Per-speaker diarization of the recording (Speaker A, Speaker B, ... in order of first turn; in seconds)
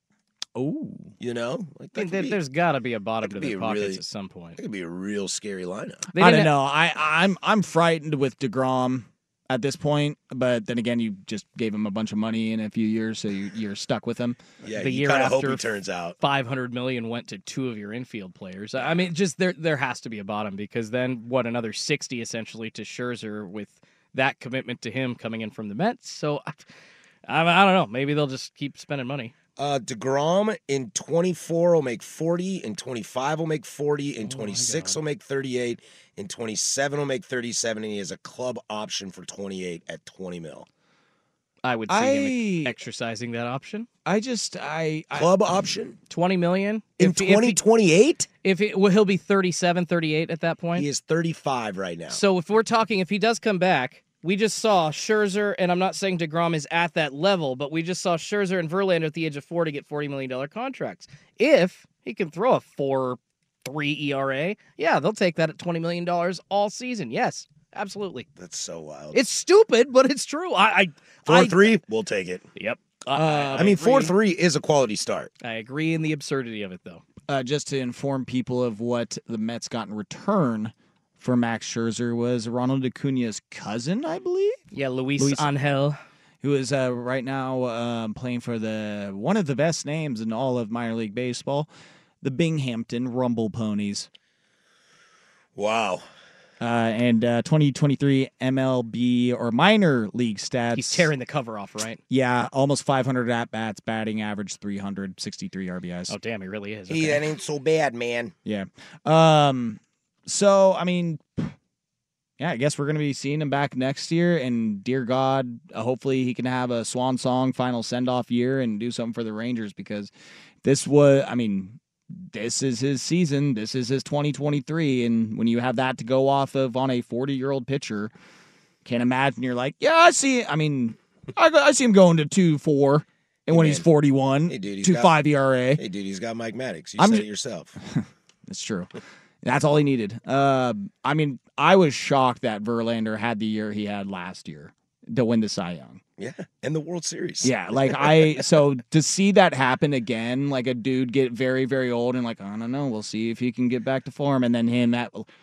Speaker A: 0.6-1.1, 6.2-14.4, 41.9-42.8, 44.0-45.4, 77.3-84.6, 85.2-85.5, 86.4-91.7, 92.2-94.1, 96.6-101.1, 102.1-106.2, 108.5-111.5, 112.4-120.1, 120.6-128.1, 128.8-135.8, 137.0-137.2, 137.8-138.9, 139.4-146.0, 147.4-155.3
Speaker B: 1.2-2.4, 3.2-4.0, 4.6-6.1, 14.6-16.2, 29.6-40.7, 45.1-46.0, 47.0-48.3, 50.8-52.2, 68.4-69.2, 71.3-72.5, 73.1-75.3, 95.6-96.0, 106.9-108.3, 133.5-133.9, 134.5-135.2, 135.8-137.7, 146.2-148.5
Speaker C: 1.9-4.6, 6.1-6.5, 14.8-15.7, 16.2-26.6, 27.3-29.3, 34.2-35.0, 41.6-43.9, 46.1-47.6, 48.4-50.9, 52.1-68.3, 69.1-71.8, 72.6-74.2, 75.4-77.0, 84.7-86.0, 100.7-102.0, 106.1-107.3